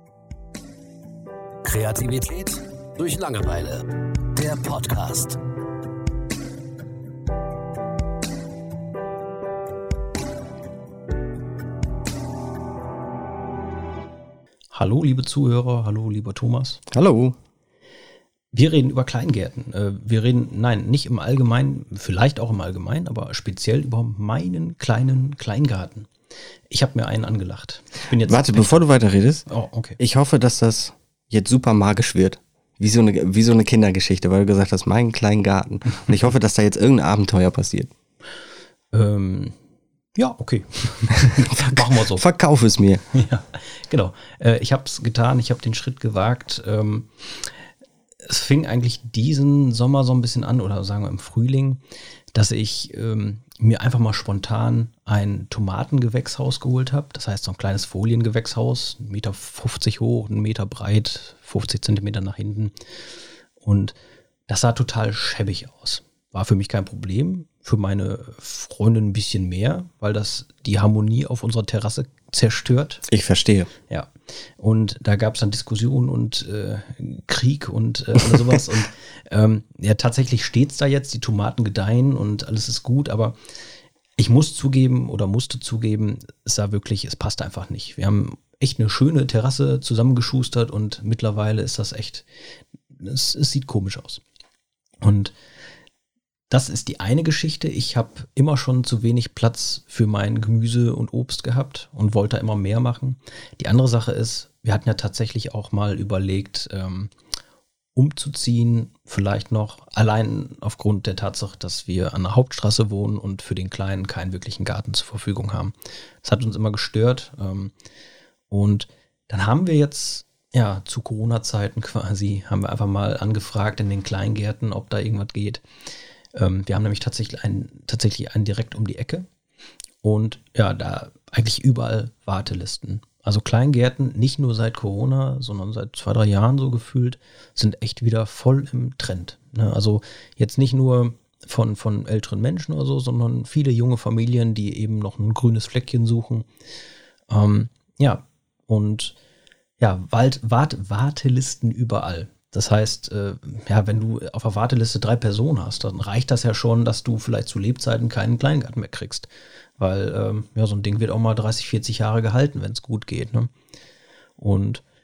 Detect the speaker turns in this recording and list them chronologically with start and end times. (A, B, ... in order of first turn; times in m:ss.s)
0:01.6-0:05.4 A
0:14.7-0:16.8 B
0:16.9-0:17.4 C
0:18.5-0:26.1 B
0:26.7-0:28.9 B
0:28.2-0:29.5 C
0:29.5-0:30.0 B
0:30.0-0:37.9 C
0:38.9-0:39.6 B
0:40.2-0:42.2 B
0:41.5-0:43.0 C
0:43.1-0:47.6 B
0:48.2-0:51.8 B
0:52.3-1:02.7 B
1:03.6-1:03.9 B
1:04.5-1:13.0 B
1:13.1-1:13.7 C
1:13.9-1:23.4 B
1:24.2-1:32.3 B
1:32.9-1:34.2 B
1:35.0-1:35.3 B
1:36.5-1:47.1 B
1:47.9-1:57.7 B
1:58.5-2:05.6 B
2:06.3-2:09.2 B
2:10.0-2:26.5 B
2:27.3-2:29.2 B
2:29.8-2:43.5 B
2:44.4-2:44.8 B